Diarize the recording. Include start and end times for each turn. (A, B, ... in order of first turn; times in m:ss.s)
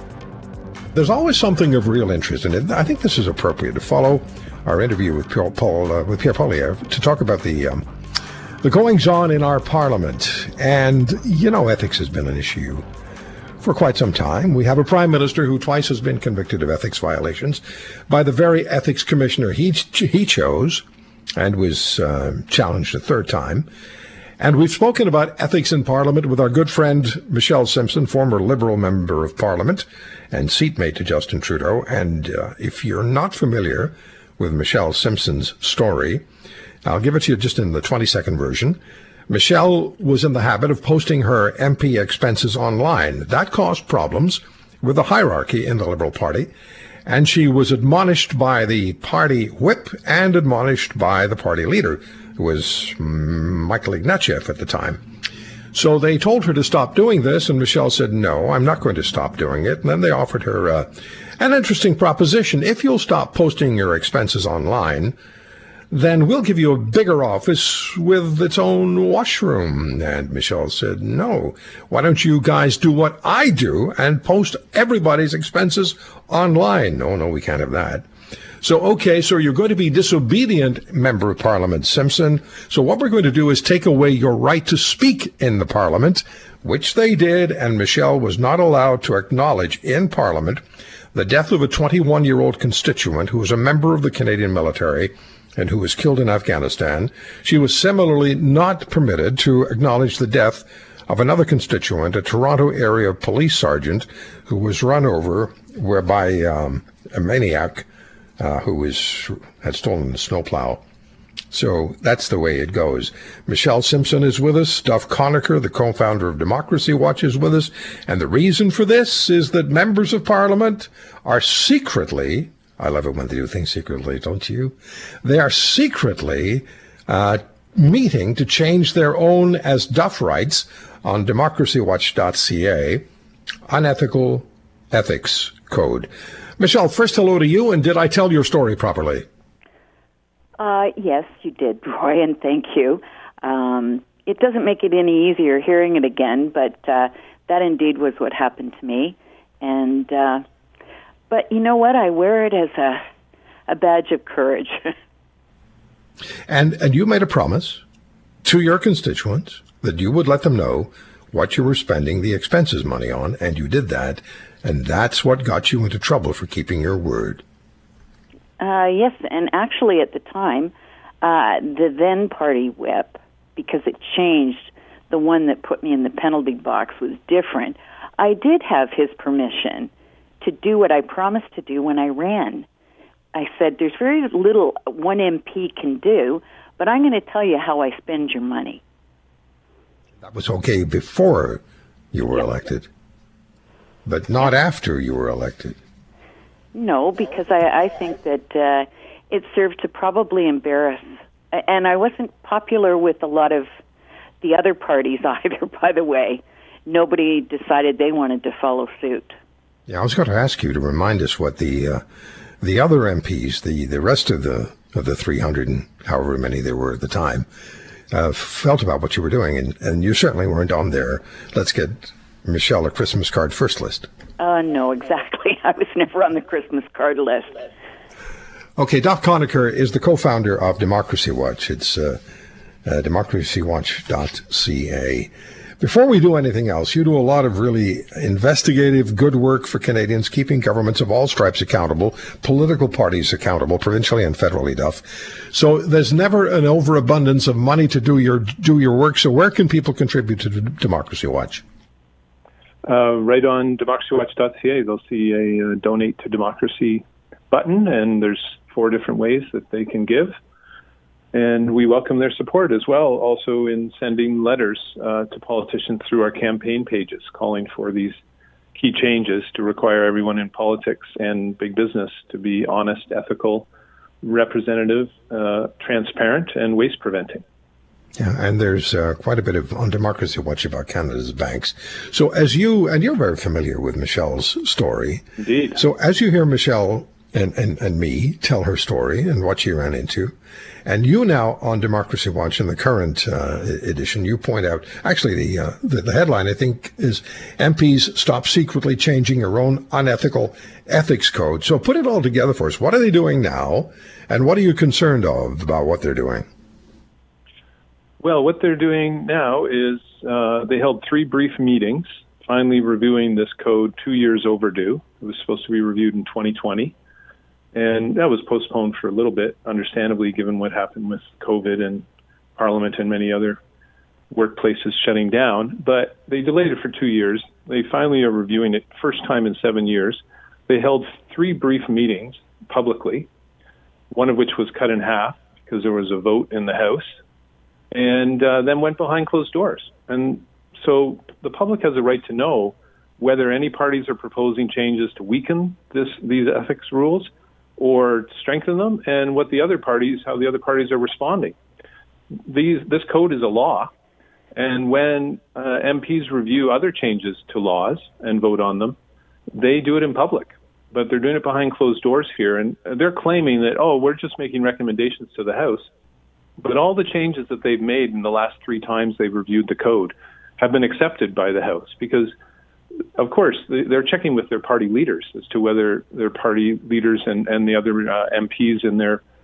0:00.9-0:07.8 A
0:08.6-0:12.8 A
0:13.6-0:20.8 A
0:21.4-0:23.7 A
0:24.4-0:36.2 A
0:36.8-0:46.5 A
0:47.1-0:55.0 A
0:55.7-1:05.2 A
1:05.9-1:18.0 A
1:18.6-1:30.6 A
1:31.1-1:47.9 A
1:48.4-1:50.8 A
1:51.5-2:13.0 A
2:13.7-2:19.3 A
2:20.6-2:30.4 B
2:31.3-2:33.0 B
2:33.7-2:34.9 B
2:36.5-2:37.8 A
2:38.4-2:47.4 A
2:48.6-3:02.7 B
3:03.3-3:08.8 B
3:10.2-3:11.6 A
3:12.1-3:12.9 A
3:14.1-3:15.8 A
3:16.7-3:23.7 B
3:24.4-3:29.4 B
3:29.9-3:32.0 A
3:32.6-3:37.5 A
3:38.1-3:44.1 A
3:44.4-3:47.7 B
3:48.8-3:52.2 A
3:52.9-4:11.6 A
4:12.8-4:20.4 C
4:21.3-4:28.2 C
4:28.7-4:33.7 C
4:34.2-4:37.4 C
4:38.2-4:45.2 A
4:45.4-4:45.8 C
4:45.8-4:50.3 A
4:50.8-5:06.5 A
5:08.2-5:17.0 C
5:17.7-5:23.6 C
5:24.3-5:33.3 C
5:34.1-5:37.2 C
5:37.9-5:51.6 C
5:52.5-5:53.9 C
5:54.6-5:59.0 C
5:59.5-6:05.9 C
6:06.6-6:12.4 C
6:13.2-6:19.2 C